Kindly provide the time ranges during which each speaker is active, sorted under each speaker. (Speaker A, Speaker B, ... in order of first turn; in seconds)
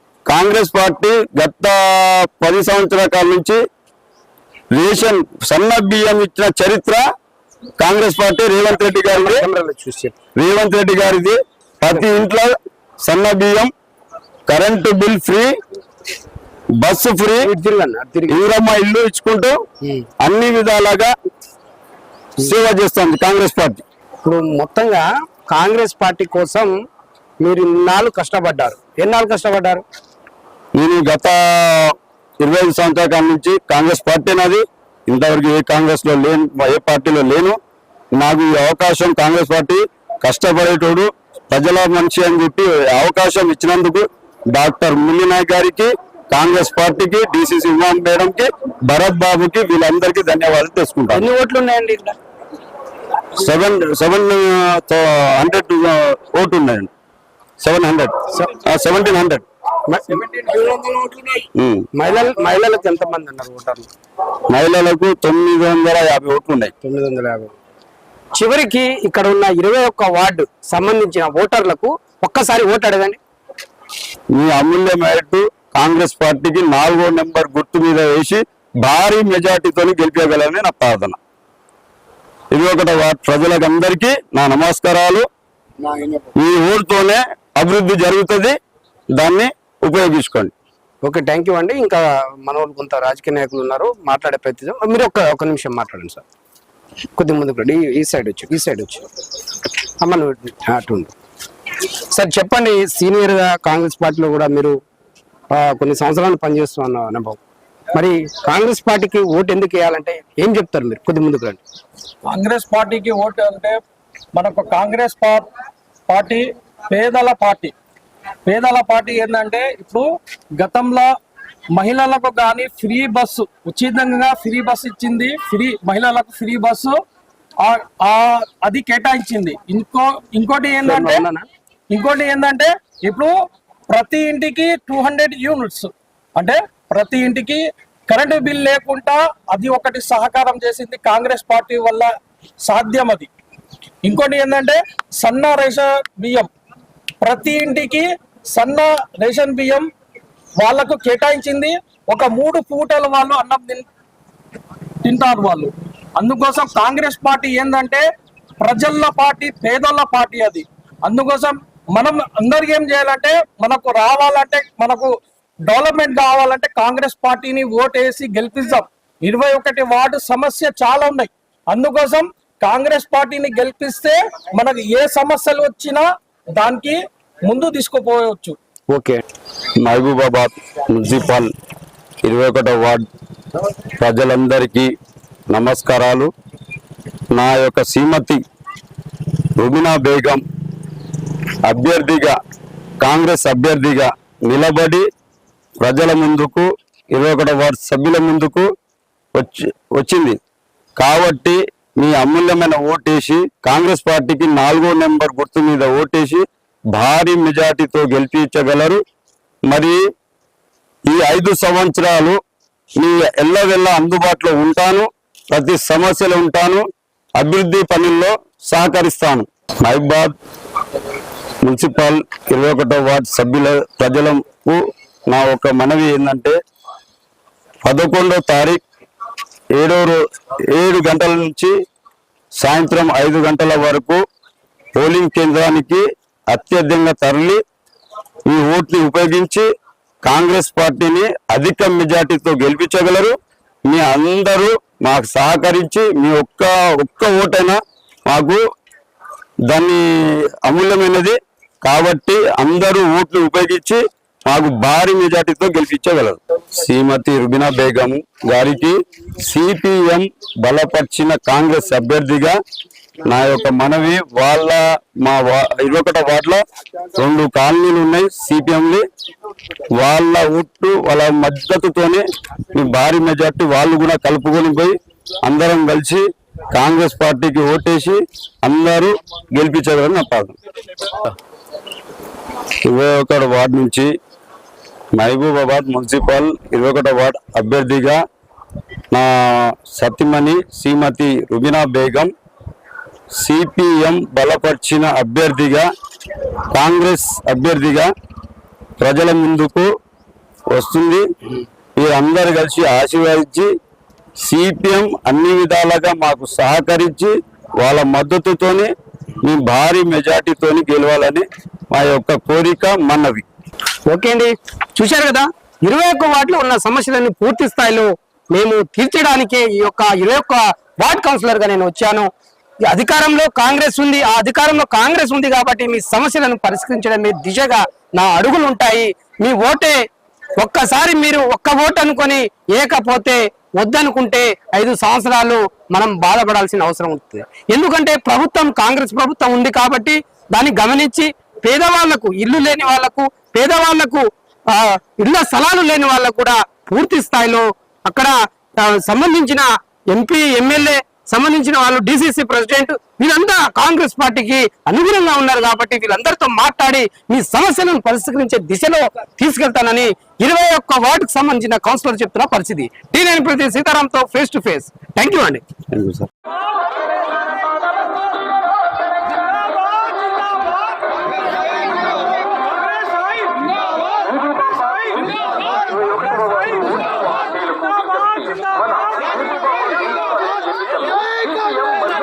Speaker A: 0.3-3.6, 4.7-7.0, 7.8-9.4, 10.4-13.7, 14.5-15.5, 16.8-17.5, 18.3-19.6, 20.2-21.1, 22.4-23.8, 30.8-37.6, 38.2-51.2, 53.4-56.9, 57.6-59.4, 61.6-61.9, 64.5-66.7, 74.3-81.2, 82.5-85.2, 86.4-88.5, 89.2-90.5, 179.8-181.5, 182.2-183.0, 184.0-184.9, 185.5-186.3, 187.3-188.4, 189.6-190.4, 191.6-192.4, 193.0-195.0, 195.8-198.7, 199.3-200.4, 201.0-206.4, 206.9-209.0, 209.7-210.0, 211.1-212.4, 213.0-216.8, 217.4-220.3, 221.6-226.6, 227.8-228.8, 229.8-230.2, 230.7-231.7, 232.6-234.2, 234.9-237.6, 238.5-239.7, 240.2-243.3, 243.9-248.6, 249.7-262.6, 263.2-266.6, 267.1-269.0, 269.9-280.5, 282.8-284.1, 285.1-288.2, 289.1-292.3, 293.4-295.9, 296.7-298.1, 299.0-299.9, 300.7-301.2, 302.0-303.7, 304.4-308.9, 309.4-313.5, 365.9-366.3
Speaker B: 8.9-10.2, 17.4-18.4, 24.2-26.7, 27.4-29.8, 51.1-52.1, 58.3-58.6, 59.9-61.4, 62.0-63.9, 66.8-67.5, 68.3-73.2, 91.0-96.2, 97.2-99.0, 100.0-101.1, 102.1-104.7, 105.5-107.4, 107.9-111.6, 130.8-131.4, 178.9-179.2, 314.1-322.3, 322.9-330.0, 330.6-365.6
Speaker C: 60.2-60.7, 112.3-113.8, 114.3-115.5, 116.1-117.7, 118.5-120.0, 120.6-121.1, 121.8-127.0, 127.6-131.2, 131.9-133.3, 133.9-142.1, 142.7-143.3, 144.0-146.5, 147.2-149.9, 150.6-153.8, 155.0-158.0, 158.6-165.1, 165.7-176.0, 176.6-178.6